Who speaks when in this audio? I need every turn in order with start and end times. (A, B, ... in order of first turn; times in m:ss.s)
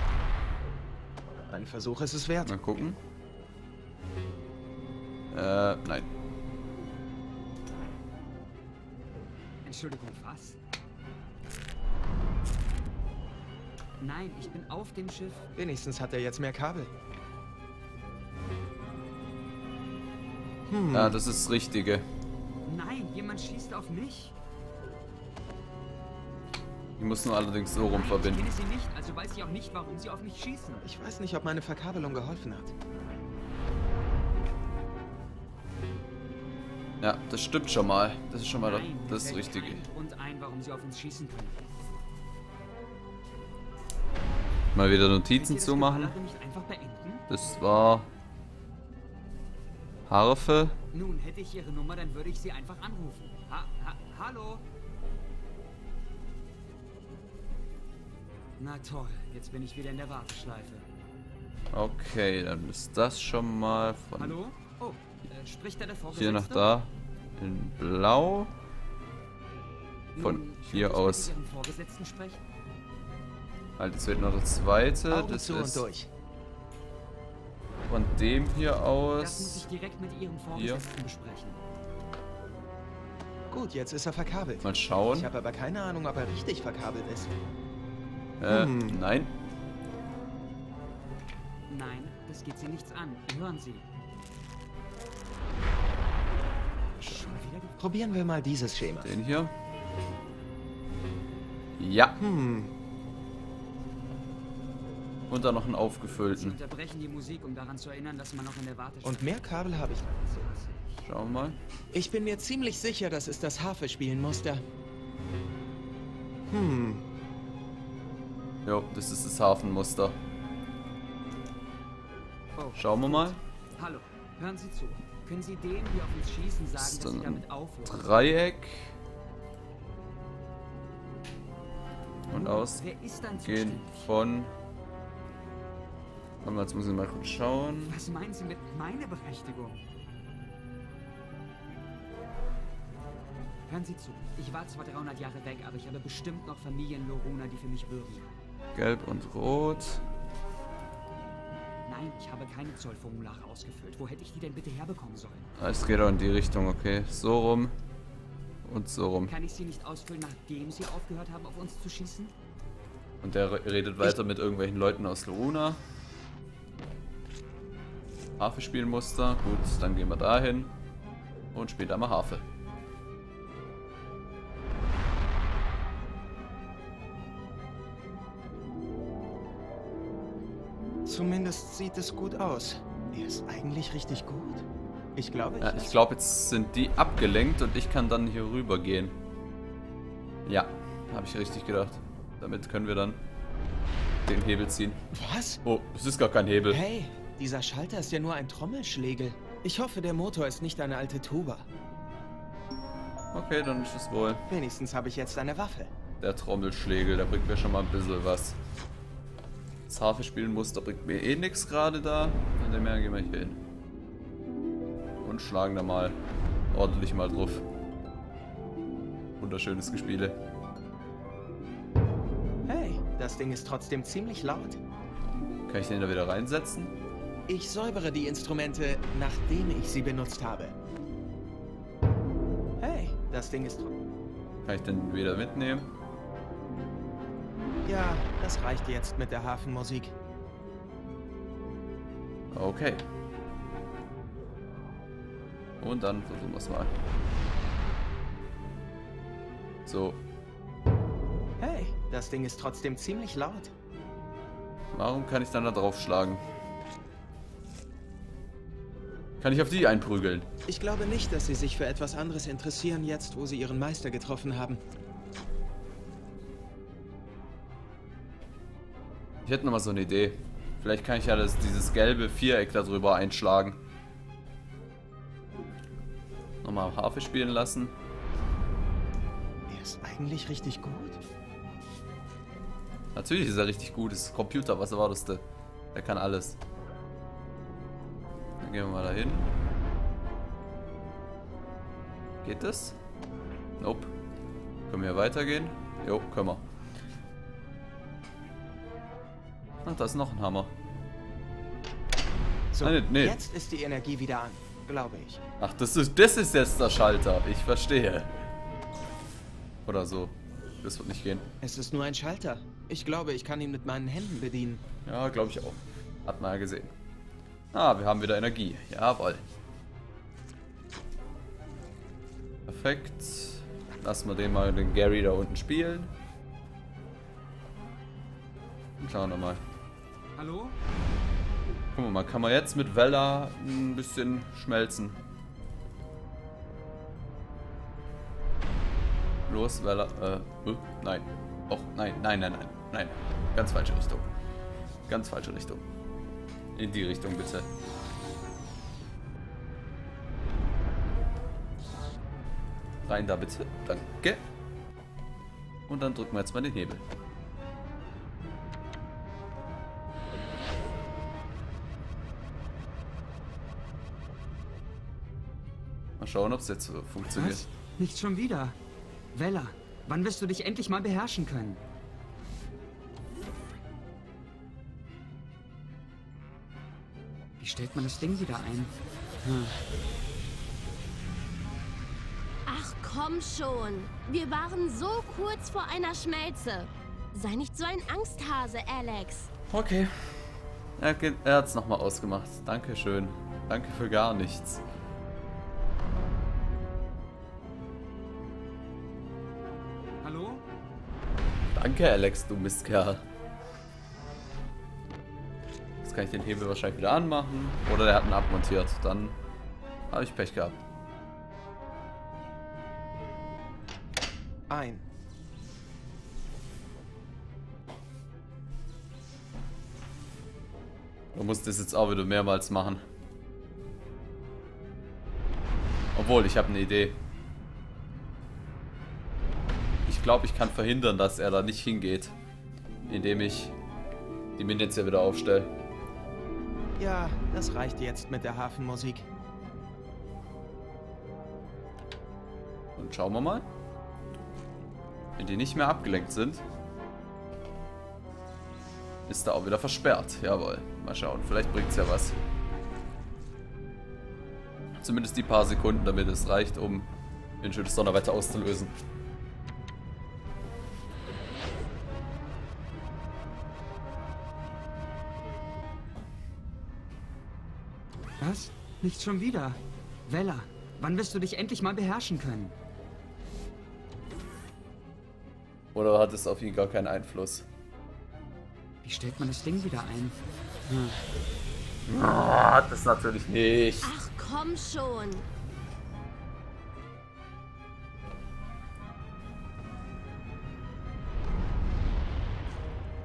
0:01.5-0:02.8 A
0:02.4-0:03.0 B
0:05.3-0:06.1 B
0:09.6-0:10.6 C
0:14.0-0:15.5 C
0:15.6-0:16.9 A
0:20.8-0:22.0 B
0:22.6-0:24.3 C
0:27.0-0:28.5 B
0:27.9-0:30.8 C
0:30.8-0:32.7 A
0:37.0-0:39.8 B
0:38.5-0:41.6 C
0:44.7-0:46.1 B
0:45.3-0:47.2 C
0:47.3-0:48.1 B
0:50.1-0:50.8 B
0:50.9-0:54.6 C
0:58.6-1:00.8 C
1:01.7-1:04.4 B
1:04.1-1:06.7 C
1:06.1-1:08.5 B
1:10.1-1:12.4 C
1:10.2-1:11.3 B
1:13.8-1:15.9 B
1:15.1-1:16.1 A
1:17.9-1:19.6 B
1:19.2-1:21.6 C
1:20.5-1:20.8 B
1:23.5-1:27.3 A
1:24.6-1:25.3 B
1:28.4-1:29.3 B
1:31.7-1:33.8 C
1:37.0-1:38.0 C
1:37.8-1:39.1 A
1:39.0-1:39.5 B
1:41.8-1:42.2 B
1:45.3-1:46.6 B
1:46.3-1:51.0 C
1:49.0-1:50.2 A
1:51.0-1:51.6 B
1:51.9-1:54.6 A
1:56.6-1:56.8 A
1:58.6-2:00.2 B
2:02.6-2:08.2 C
2:02.8-2:03.4 B
2:06.8-2:08.9 B
2:12.3-2:12.8 B
2:12.3-2:14.1 C
2:13.3-2:14.5 B
2:16.4-2:18.0 B
2:17.9-2:19.8 C
2:23.7-2:28.3 C
2:28.7-2:30.0 B
2:31.8-2:35.5 C
2:35.6-2:37.7 B
2:38.6-2:39.3 B
2:39.3-2:42.3 C
2:43.2-2:45.8 B
2:48.4-2:50.7 B
2:51.5-2:52.4 B
3:01.0-3:05.9 A
3:05.6-3:09.1 B
3:10.4-3:13.2 B
3:14.2-3:15.0 B
3:15.1-3:15.6 A
3:15.6-3:16.8 B
3:16.7-3:21.7 A
3:23.3-3:24.4 B
3:24.5-3:25.9 A
3:26.2-3:28.6 B
3:29.9-3:33.6 B
3:35.2-3:36.2 B
3:36.7-3:37.6 B
3:39.4-3:40.4 B
3:42.6-3:44.8 A
3:45.7-3:46.9 B
3:47.5-3:50.7 A
3:52.8-3:53.9 A
3:54.6-3:55.9 B
3:57.8-4:00.1 A
4:02.5-4:03.0 B
4:05.8-4:06.9 B
4:09.8-4:10.2 B
4:11.6-4:13.7 A
4:14.9-4:16.4 B
4:19.4-4:20.5 B
4:20.7-4:24.8 A
4:29.4-4:33.8 B
4:36.6-4:37.9 B
4:39.7-4:41.2 A
4:43.1-4:46.6 B
4:48.6-4:49.4 B
4:52.4-4:53.0 B
4:53.8-4:54.1 B
4:54.9-4:56.6 B
4:59.8-5:00.7 B
5:02.7-5:05.4 A
5:02.8-5:03.4 B
5:05.6-5:08.3 B
5:09.8-5:11.4 B
5:11.6-5:14.8 A
5:15.0-5:16.9 B
5:17.7-5:19.4 B
5:22.7-5:26.1 B
5:29.0-5:29.6 B
5:30.4-5:30.8 C
5:31.9-5:35.2 B
5:39.5-5:44.3 B
5:45.1-5:45.8 B
5:46.8-5:47.7 B
5:53.0-5:54.4 B
5:55.9-5:57.0 B
6:06.2-6:07.6 B
6:07.3-6:08.8 C
6:09.3-6:11.8 C
6:17.6-6:19.8 C
6:22.6-6:29.5 D
6:29.7-6:34.8 B
6:40.2-6:40.6 C
6:41.7-6:43.2 B
6:46.0-6:49.4 B
6:50.1-6:50.8 B
6:54.7-6:55.0 A
7:01.3-7:03.0 B
7:06.1-7:07.2 B
7:10.0-7:12.3 B
7:13.1-7:13.8 B
7:14.6-7:15.7 B
7:17.0-7:19.3 A
7:23.0-7:23.6 B
7:25.4-7:26.6 B
7:29.3-7:32.4 B
7:35.0-7:37.1 B
7:37.6-7:38.9 B
7:48.4-7:52.8 C
7:55.9-7:57.7 B
7:59.0-8:01.2 C
8:02.1-8:04.1 B
8:04.0-8:05.4 D